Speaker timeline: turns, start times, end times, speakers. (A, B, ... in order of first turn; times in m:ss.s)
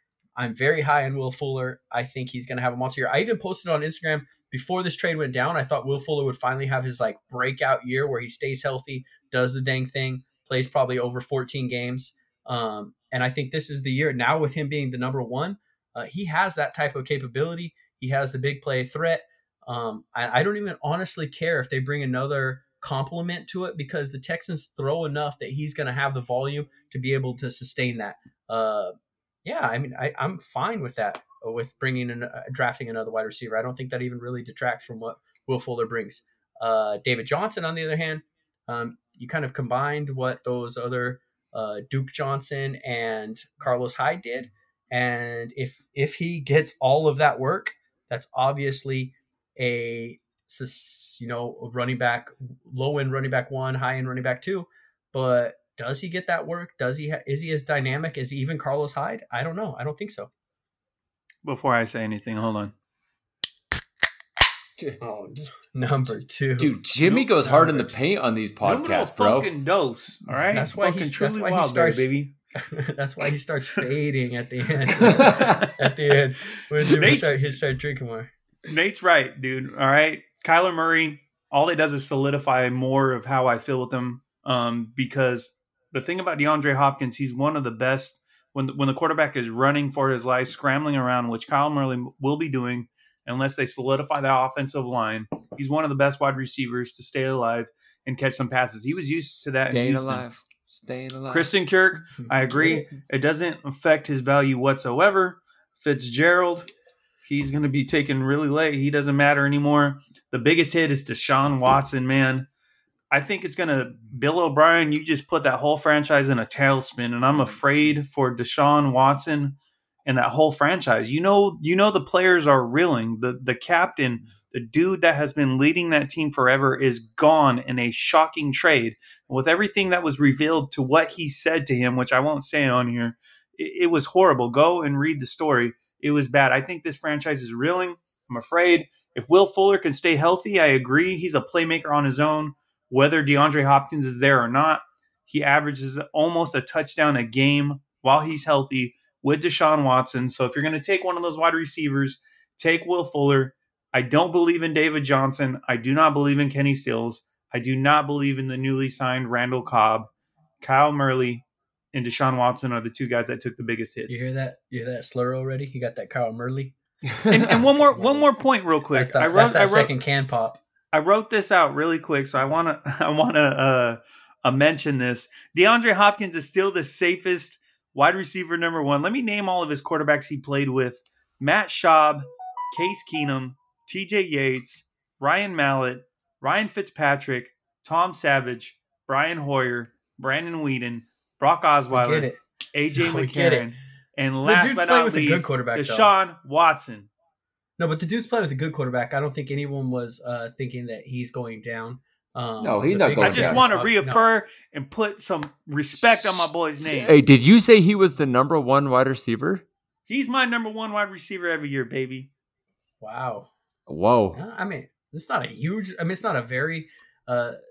0:00.4-0:28.9 A
0:29.4-1:00.3 A
1:01.4-1:02.7 B
1:05.0-1:06.8 A
1:06.6-1:09.5 C
1:07.4-1:08.0 A
1:08.6-1:12.3 B
1:10.4-1:18.3 A
1:15.0-1:15.7 C
1:15.4-1:15.9 B
1:16.8-1:17.6 B
1:18.7-1:40.2 B
1:39.7-1:41.5 C
1:41.3-1:46.7 B
1:42.2-1:42.9 A
1:47.2-1:52.5 B
1:53.1-2:40.1 B
2:40.6-2:44.2 B
2:44.1-2:46.8 A
2:47.2-2:47.4 C
2:47.3-2:49.9 B
2:47.4-2:48.3 A
2:48.9-2:50.6 A
2:50.9-3:17.1 B
3:11.9-3:12.4 A
3:13.0-3:13.7 A
3:14.4-3:16.1 A
3:17.8-3:24.3 A
3:22.6-3:23.6 C
3:23.2-3:27.2 B
3:26.8-3:29.6 C
3:30.1-3:32.3 B
3:33.0-3:33.5 A
3:33.9-3:34.4 C
3:34.3-3:37.6 A